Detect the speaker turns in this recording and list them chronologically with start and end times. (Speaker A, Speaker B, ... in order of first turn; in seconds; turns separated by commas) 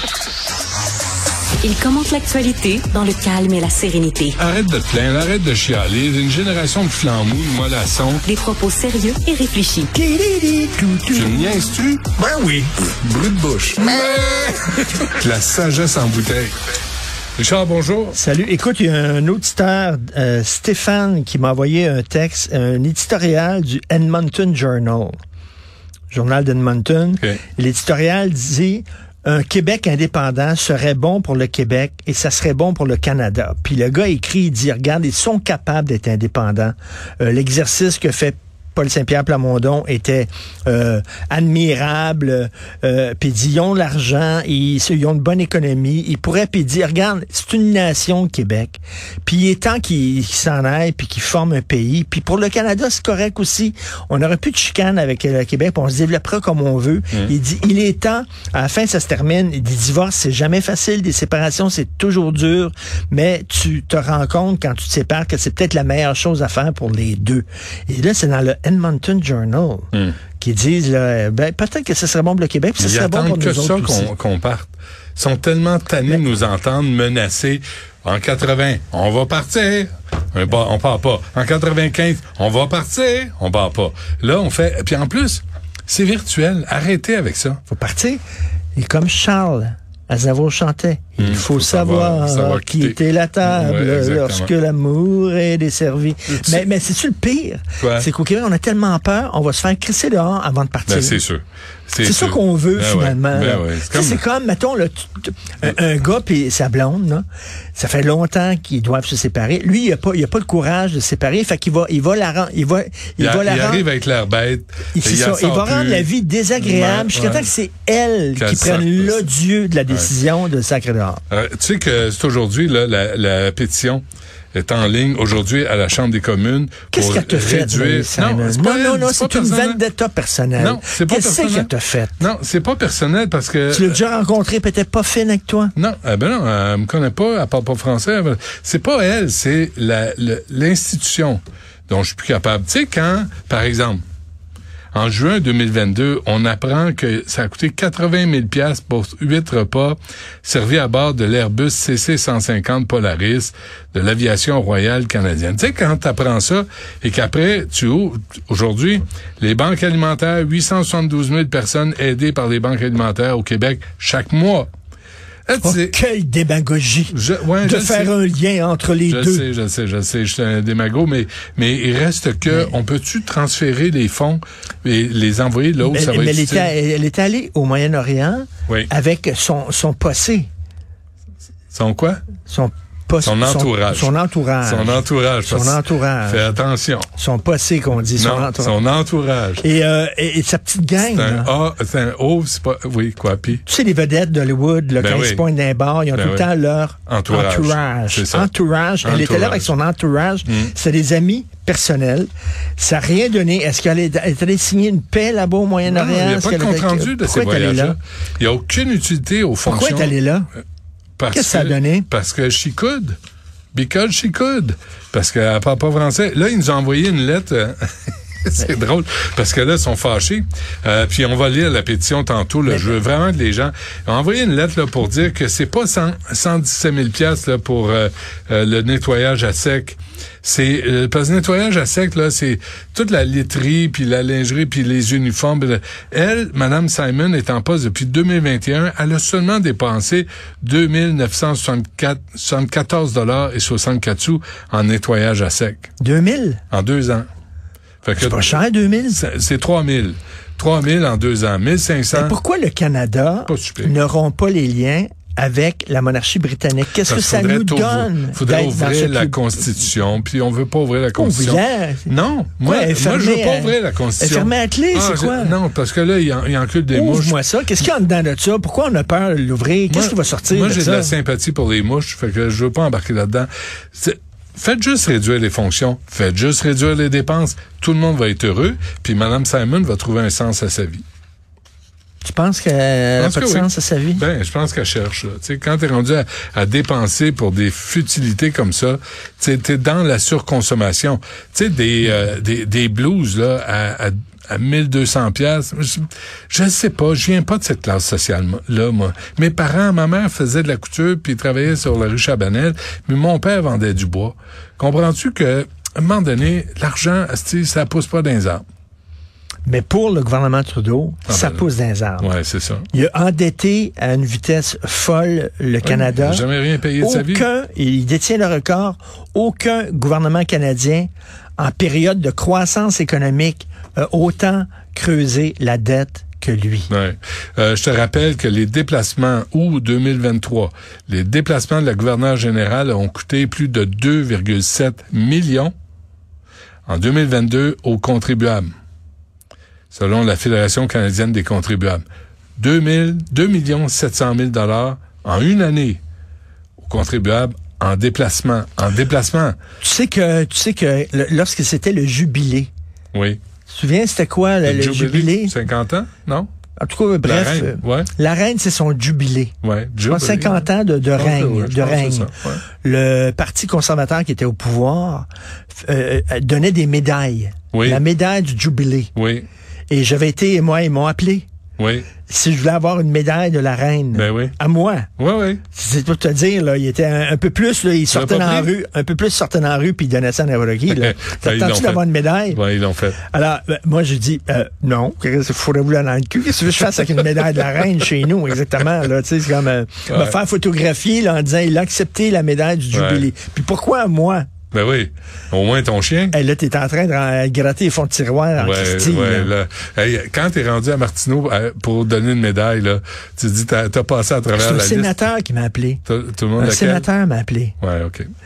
Speaker A: 1.6-4.4, Speaker B: 4.4-8.2, Speaker A: 8.2-9.9, Speaker C: 9.9-11.5, Speaker B: 11.1-12.1, Speaker C: 12.2-12.7, Speaker B: 13.0-16.5, Speaker B: 17.4-18.2, Speaker C: 18.1-25.1, Speaker C: 26.1-74.1, Speaker B: 72.8-87.6, Speaker C: 87.7-88.2, Speaker C: 88.7-101.2, Speaker B: 91.2-94.5, Speaker B: 96.3-96.7, Speaker B: 97.8-98.1, Speaker B: 100.9-104.2, Speaker C: 102.0-113.9, Speaker B: 113.2-117.5, Speaker C: 114.9-121.2, Speaker B: 118.3-119.3, Speaker B: 119.9-120.1, Speaker B: 121.3-129.8, Speaker C: 126.9-132.2, Speaker B: 130.6-134.0, Speaker C: 133.7-135.7, Speaker B: 135.8-144.0, Speaker B: 144.9-164.7, Speaker B: 165.4-165.9, Speaker C: 165.6-169.5, Speaker B: 167.1-168.1, Speaker B: 169.1-176.7, Speaker C: 175.8-180.5, Speaker B: 181.7-182.2, Speaker C: 182.5-186.6, Speaker B: 183.2-187.1, Speaker C: 187.2-188.8, Speaker B: 188.2-189.7, Speaker C: 189.6-191.5, Speaker B: 191.0-193.6, Speaker C: 193.6-208.0, Speaker B: 195.0-195.4, Speaker B: 196.1-196.5, Speaker B: 197.1-198.5, Speaker B: 199.0-199.7, Speaker B: 200.4-200.7, Speaker B: 205.8-210.2, Speaker C: 209.6-210.5, Speaker B: 211.2-213.2, Speaker C: 211.3-212.1, Speaker B: 213.7-245.9, Speaker C: 246.0-246.6, Speaker B: 246.7-247.3, Speaker B: 248.0-248.6, Speaker C: 248.2-249.2, Speaker B: 249.1-252.3, Speaker C: 252.1-259.4, Speaker B: 253.5-254.0, Speaker B: 257.1-267.4, Speaker C: 261.1-265.6, Speaker C: 266.9-271.1, Speaker B: 269.9-281.0, Speaker C: 282.2-284.2, Speaker B: 283.2-308.6, Speaker C: 309.6-312.3, Speaker B: 311.3-311.7, Speaker B: 312.2-312.9, Speaker C: 312.9-316.4, Speaker B: 315.8-317.5, Speaker C: 317.0-326.9, Speaker B: 326.9-335.7, Speaker B: 336.9-338.7, Speaker B: 339.9-342.0, Speaker B: 342.6-346.0, Speaker B: 346.8-349.6, Speaker C: 349.8-352.7, Speaker B: 353.1-353.4, Speaker C: 353.7-355.6, Speaker B: 354.6-356.5, Speaker C: 356.8-369.1, Speaker B: 357.2-358.1, Speaker B: 359.6-362.6, Speaker B: 367.7-368.0, Speaker B: 369.1-369.5, Speaker C: 369.9-371.4, Speaker B: 371.8-372.1, Speaker C: 372.2-375.1, Speaker B: 374.1-374.6, Speaker B: 375.2-375.6, Speaker C: 375.7-382.6, Speaker B: 378.1-378.7, Speaker B: 380.9-383.2, Speaker C: 383.2-394.5, Speaker B: 390.1-390.4, Speaker B: 392.9-393.3, Speaker B: 394.7-396.4, Speaker C: 396.3-399.5, Speaker B: 398.6-405.2, Speaker C: 404.5-406.0, Speaker B: 406.1-407.1, Speaker C: 406.6-407.8, Speaker B: 407.8-408.3